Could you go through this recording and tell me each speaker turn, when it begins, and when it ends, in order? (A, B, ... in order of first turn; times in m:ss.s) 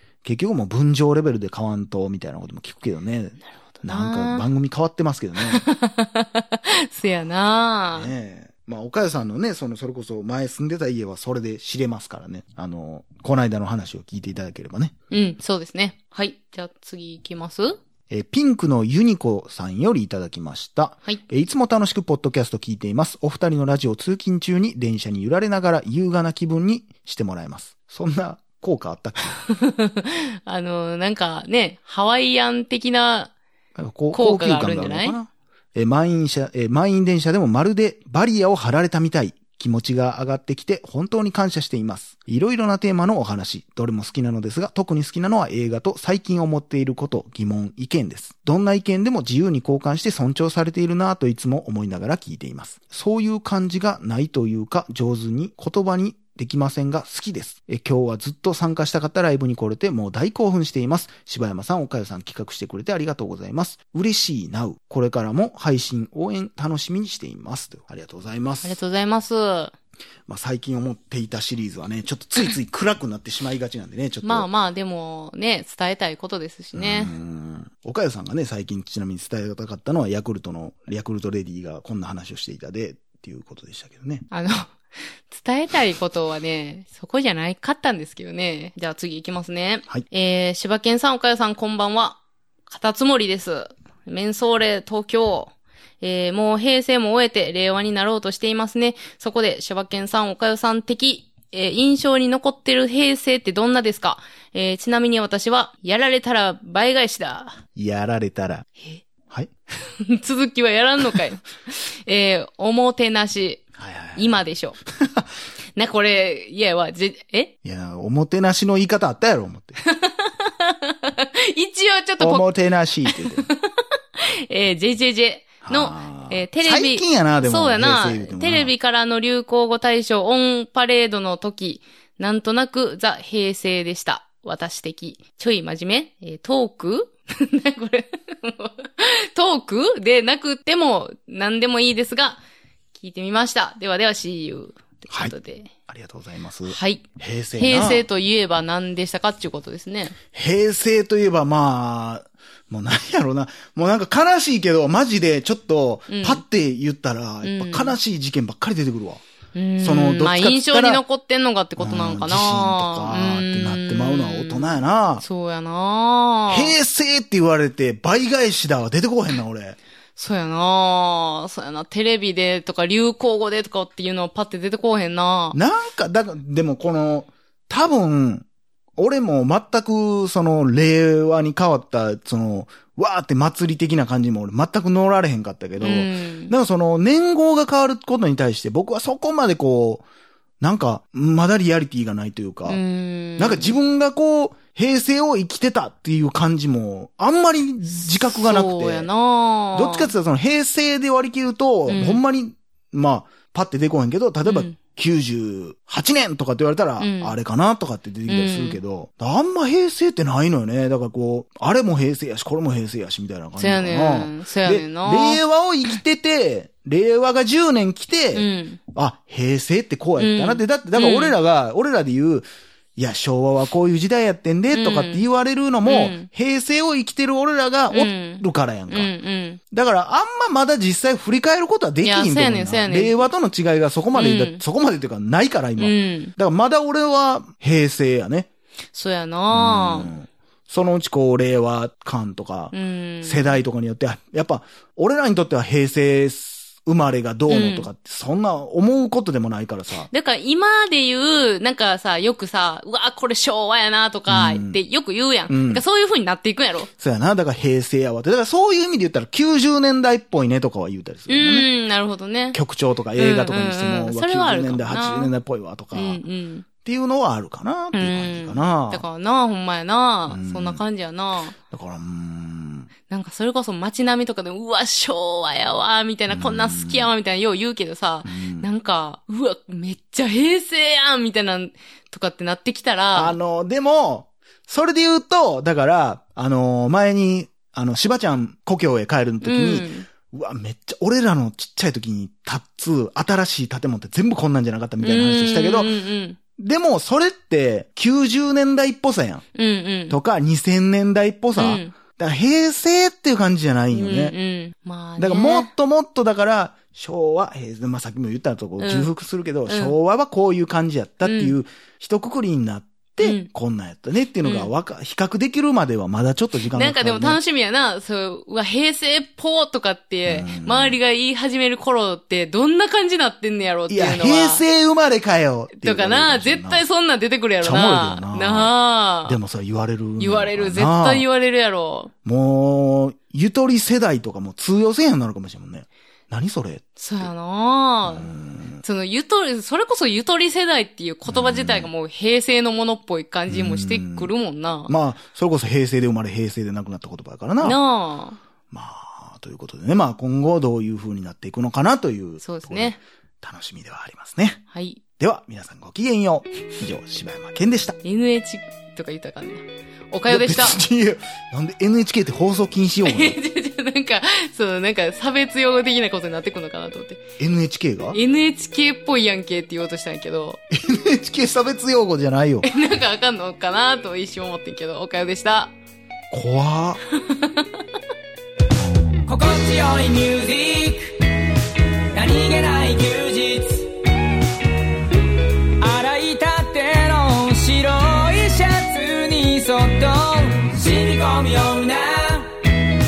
0:00.2-0:05.6 A
0:03.8-0:04.4 B
0:05.5-0:08.1 B
0:07.9-0:14.9 A
0:15.1-0:17.8 B
0:18.1-0:29.4 A
0:29.5-0:33.3 B
0:33.8-1:08.8 A
0:34.1-0:35.2 B
1:08.6-1:09.7 B
1:10.3-1:14.5 A
1:14.2-1:17.1 B
1:16.7-1:24.2 A
1:24.3-1:24.7 B
1:25.3-1:47.6 B
1:47.7-1:48.7 A
1:49.8-1:53.6 B
1:53.8-1:54.4 A
1:54.2-1:54.8 B
1:55.8-1:57.5 B
1:57.6-1:59.8 A
1:59.8-2:02.5 B
2:02.2-2:03.5 A
2:03.0-2:22.4 B
2:05.6-2:08.7 A
2:23.0-2:25.7 B
2:25.9-2:28.0 A
2:26.6-2:27.0 B
2:27.6-2:30.2 B
2:30.3-2:39.2 A
2:36.1-2:36.4 B
2:37.4-2:38.0 B
2:39.5-2:46.7 B
2:39.8-2:41.0 A
2:41.8-2:45.2 A
2:46.5-2:49.8 A
2:50.2-2:55.6 B
2:55.5-2:58.4 A
2:59.0-3:10.0 A
3:05.8-3:06.5 B
3:10.6-3:12.8 A
3:12.7-3:13.8 B
3:13.4-3:19.1 A
3:17.9-3:20.1 B
3:19.7-3:42.4 A
3:21.9-3:22.2 B
3:24.4-3:24.8 B
3:27.0-3:27.3 B
3:28.3-3:28.8 B
3:33.6-3:35.4 B
3:38.3-3:38.8 B
3:40.2-3:41.3 B
3:43.0-3:49.1 A
3:44.7-3:45.2 B
3:45.8-3:46.3 B
3:47.9-3:49.6 B
3:49.7-3:58.5 A
3:52.0-3:53.3 B
3:54.1-3:54.6 B
3:55.8-3:56.3 B
3:58.9-4:00.1 B
3:59.5-4:10.1 A
4:02.7-4:03.6 B
4:07.5-4:07.9 B
4:10.1-4:16.9 B
4:14.3-4:14.8 A
4:15.5-4:15.8 A
4:17.0-4:21.7 A
4:21.3-4:22.6 B
4:22.5-4:26.2 A
4:23.2-4:25.3 B
4:25.9-4:26.7 B
4:26.8-4:29.0 A
4:27.9-4:31.6 B
4:30.3-4:30.8 A
4:31.7-4:32.9 A
4:33.1-4:43.4 B
4:36.3-4:37.1 A
4:38.2-4:38.7 A
4:43.1-4:56.0 A
4:49.4-4:50.0 B
4:55.0-4:56.4 B
4:56.6-4:59.4 A
4:59.5-5:00.2 B
5:00.1-5:04.4 A
5:01.6-5:01.9 B
5:03.9-5:05.7 B
5:05.2-5:17.4 A
5:08.8-5:09.1 B
5:09.7-5:10.0 B
5:11.2-5:11.6 B
5:13.2-5:13.5 B
5:14.4-5:14.7 B
5:16.6-5:24.6 B
5:20.2-5:21.0 A
5:23.9-5:26.8 A
5:25.8-5:29.4 B
5:27.6-5:28.7 A
5:29.2-5:31.2 A
5:30.2-5:32.1 B
5:32.2-5:37.3 A
5:37.0-5:44.9 B
5:38.0-5:38.8 A
5:41.2-5:41.9 A
5:43.5-5:44.3 A
5:44.9-5:47.8 A
5:47.6-5:48.4 B
5:48.7-5:54.6 A
5:52.4-5:53.0 B
5:54.7-5:55.0 B
5:55.2-5:58.0 A
5:58.0-6:00.8 B
6:00.3-6:03.4 A
6:03.0-6:07.2 B
6:07.4-6:08.2 A
6:08.1-6:10.6 B
6:10.7-6:12.7 A
6:12.6-6:15.7 B
6:16.3-6:17.0 A
6:17.1-6:17.7 B
6:19.2-6:21.3 C
6:22.1-6:23.9 C
6:25.8-6:32.7 C